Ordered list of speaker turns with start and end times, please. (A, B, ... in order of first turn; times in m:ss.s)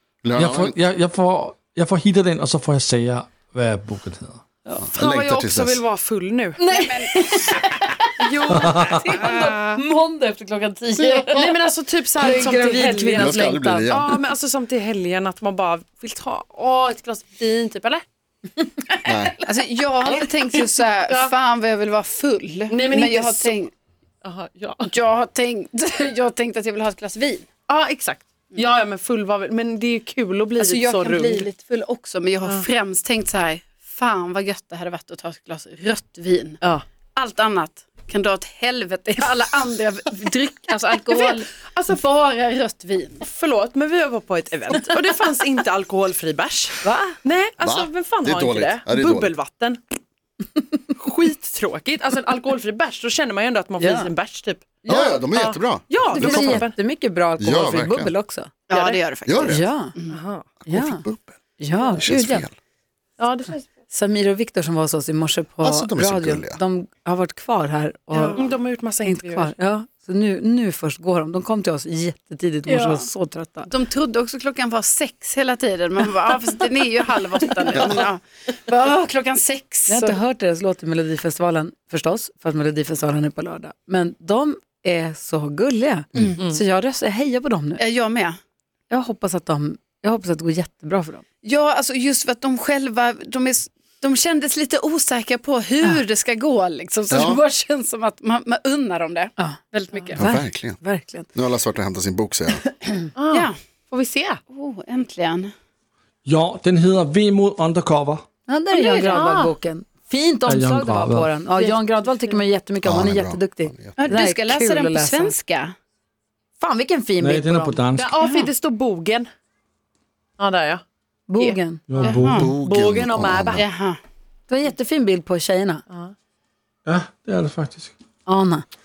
0:00.2-0:00.8 A
0:00.4-0:04.4 B
0:04.8-0:05.8 A
0:05.0-0:06.8 C
0:06.6-0:11.5 D
0:06.7-0:07.5 E
0:08.2-0:09.8 C
0:08.5-0:09.0 B
0:11.1-0:18.0 C
0:12.2-0:14.0 D
0:13.2-0:14.2 A
0:19.0-0:19.3 D
0:19.0-0:19.4 A
0:19.4-0:23.7 E
0:20.1-0:21.3 C
0:22.7-0:23.6 C
0:24.2-0:24.9 C
0:24.8-0:27.5 E
0:27.7-0:31.5 C
0:30.6-0:36.6 E
0:37.2-0:43.2 E
0:41.1-0:42.0 C
0:43.2-0:49.8 C
0:46.8-0:47.2 D
0:47.6-0:49.3 A
0:51.0-0:56.8 C
0:53.8-0:54.1 D
0:54.9-0:56.7 A
0:56.1-0:58.5 D
0:57.4-0:58.1 A
0:58.7-1:00.2 E
0:58.7-0:59.0 C
0:59.3-0:59.7 A
0:59.5-1:00.0 D
1:00.1-1:00.5 C
1:00.7-1:01.4 A
1:00.7-1:01.0 D
1:01.6-1:02.5 D
1:02.0-1:02.5 A
1:03.2-1:03.7 C
1:03.9-1:08.4 D
1:05.6-1:06.6 A
1:08.2-1:09.5 C
1:09.0-1:13.7 D
1:12.7-1:13.0 E
1:13.7-1:20.2 E
1:19.9-1:27.8 D
1:27.8-1:28.4 E
1:28.9-1:31.2 D
1:31.4-1:40.3 E
1:37.1-1:37.4 A
1:40.2-1:40.8 A
1:40.2-1:41.3 D
1:41.3-1:42.6 A
1:43.2-1:44.4 C
1:44.5-1:45.5 E
1:46.3-1:48.2 B
1:48.5-1:55.3 D
1:48.8-1:49.6 C
1:48.8-1:49.2 E
1:50.5-1:51.4 B
1:51.6-1:51.9 E
1:52.8-1:54.1 A
1:54.0-1:55.7 E
1:56.6-1:57.8 D
1:57.2-1:58.2 B
1:58.0-1:59.3 C
1:58.2-1:58.5 E
2:00.4-2:00.8 C
2:01.3-2:01.8 D
2:01.9-2:02.5 B
2:02.0-2:02.5 E
2:02.3-2:03.6 A
2:02.5-2:03.7 C
2:03.6-2:04.0 E
2:04.5-2:05.8 D
2:06.9-2:07.9 B
2:08.3-2:08.6 D